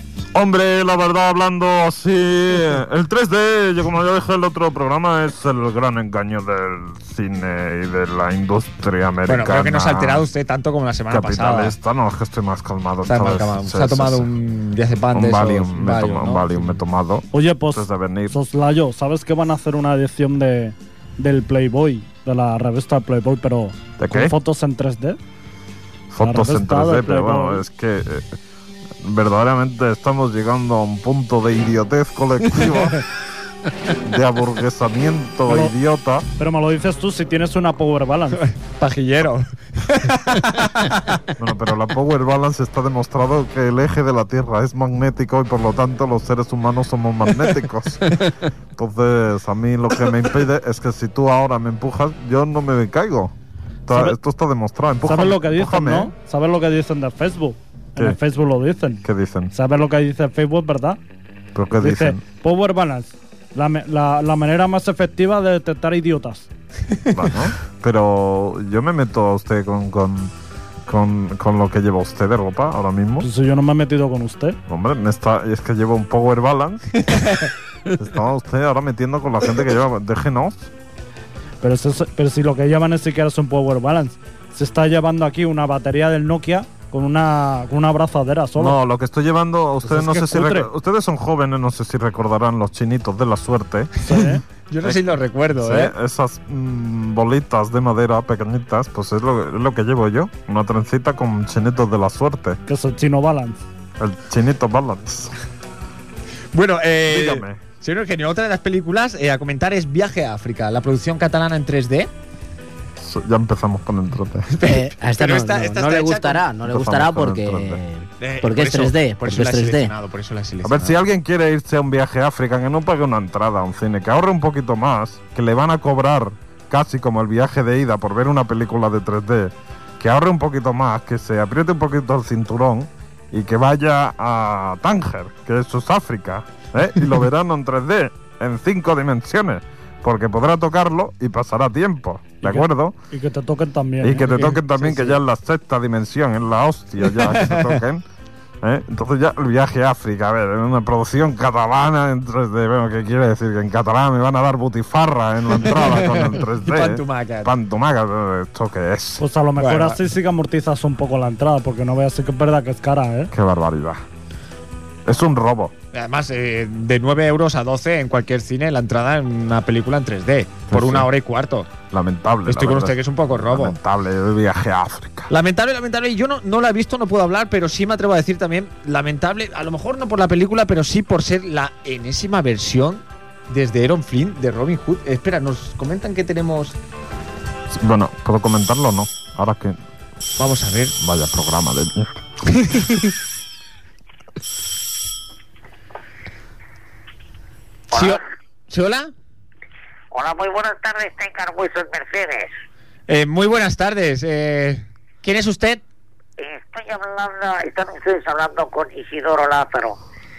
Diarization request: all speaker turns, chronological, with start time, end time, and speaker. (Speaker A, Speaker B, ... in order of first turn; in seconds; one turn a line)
Speaker A: 0.3-10.2
Speaker B: 9.3-11.7
Speaker A: 11.1-14.3
Speaker B: 13.1-16.7
Speaker A: 15.1-18.3
Speaker C: 17.3-25.2
Speaker A: 24.0-24.3
Speaker A: 26.1-28.4
Speaker C: 26.2-27.6
Speaker A: 29.0-33.0
Speaker A: 33.9-36.2
Speaker C: 35.5-35.8
Speaker C: 36.4-38.5
Speaker B: 38.4-41.2
Speaker A: 41.4-53.3
Speaker A: 53.9-56.1
Speaker C: 53.9-54.2
Speaker C: 55.0-61.0
Speaker A: 59.0-59.5
Speaker A: 61.5-62.2
Speaker C: 61.8-66.5
Speaker A: 67.1-70.3
Speaker A: 70.9-73.3
Speaker C: 73.2-74.6
Speaker A: 74.7-77.4
Speaker B: 77.1-77.5
Speaker A: 78.0-80.7
Speaker C: 81.6-88.8
Speaker A: 88.6-93.9
Speaker C: 89.8-90.7
Speaker C: 94.0-94.4
Speaker B: 94.7-95.9
Speaker A: 95.6-102.6
Speaker C: 102.7-103.6
Speaker A: 104.0-105.3
Speaker B: 106.5-112.1
Speaker A: 107.1-107.6
Speaker A: 113.0-114.5
Speaker B: 114.5-116.5
Speaker D: 114.6-119.9
Speaker A: 116.7-117.8
Speaker B: 118.2-121.0
Speaker A: 120.6-143.0
Speaker C: 142.4-145.1
Speaker A: 144.0-148.0
Speaker B: 147.1-147.8
Speaker A: 148.6-159.2
Speaker B: 155.6-157.5
Speaker C: 159.2-163.3
Speaker B: 159.6-160.0
Speaker A: 163.3-164.0
Speaker A: 165.1-165.7
Speaker B: 165.9-171.7
Speaker A: 170.7-171.1
Speaker A: 171.9-175.3
Speaker B: 172.5-173.8
Speaker B: 175.3-186.8
Speaker A: 187.7-189.8
Speaker B: 190.4-190.9
Speaker A: 191.0-192.2
Speaker B: 192.5-193.0
Speaker B: 197.9-199.1
Speaker E: 197.9-198.2
Speaker E: 200.1-202.5
Speaker B: 203.1-205.8
Speaker E: 206.4-210.0